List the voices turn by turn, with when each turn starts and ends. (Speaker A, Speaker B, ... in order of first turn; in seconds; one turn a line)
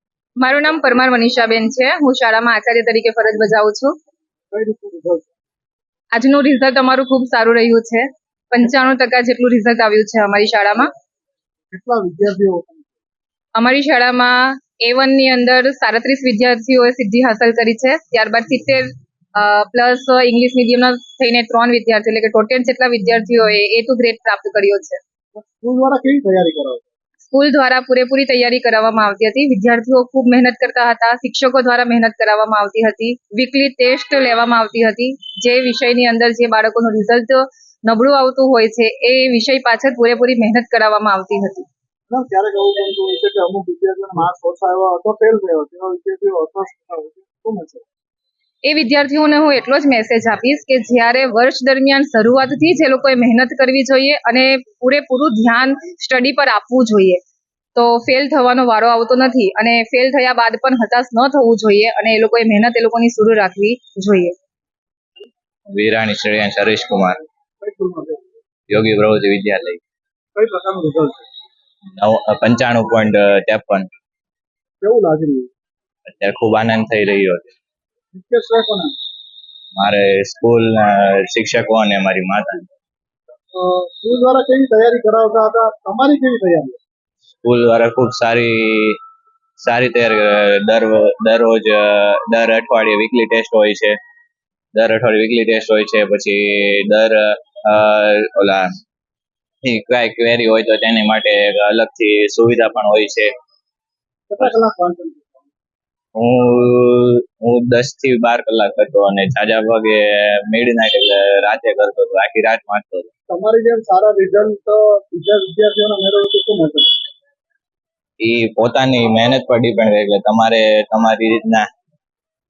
Speaker A: 0.4-3.9
Speaker B: 4.5-5.3
Speaker A: 6.1-10.9
Speaker B: 11.7-12.9
Speaker A: 13.6-18.8
Speaker A: 19.4-25.0
Speaker B: 25.3-26.8
Speaker A: 27.3-41.6
Speaker B: 42.1-47.9
Speaker A: 48.6-57.2
Speaker A: 57.8-64.3
Speaker C: 65.7-67.2
Speaker B: 67.6-68.3
Speaker C: 68.7-69.8
Speaker B: 70.3-71.3
Speaker C: 72.0-73.9
Speaker B: 74.8-75.5
Speaker C: 76.1-77.5
Speaker B: 78.1-79.0
Speaker C: 79.8-82.7
Speaker B: 83.5-86.8
Speaker C: 87.4-89.0
Speaker C: 89.6-94.0
Speaker C: 94.7-98.7
Speaker C: 99.6-103.3
Speaker B: 104.3-105.4
Speaker C: 106.2-113.1
Speaker B: 113.3-116.9
Speaker C: 118.2-121.7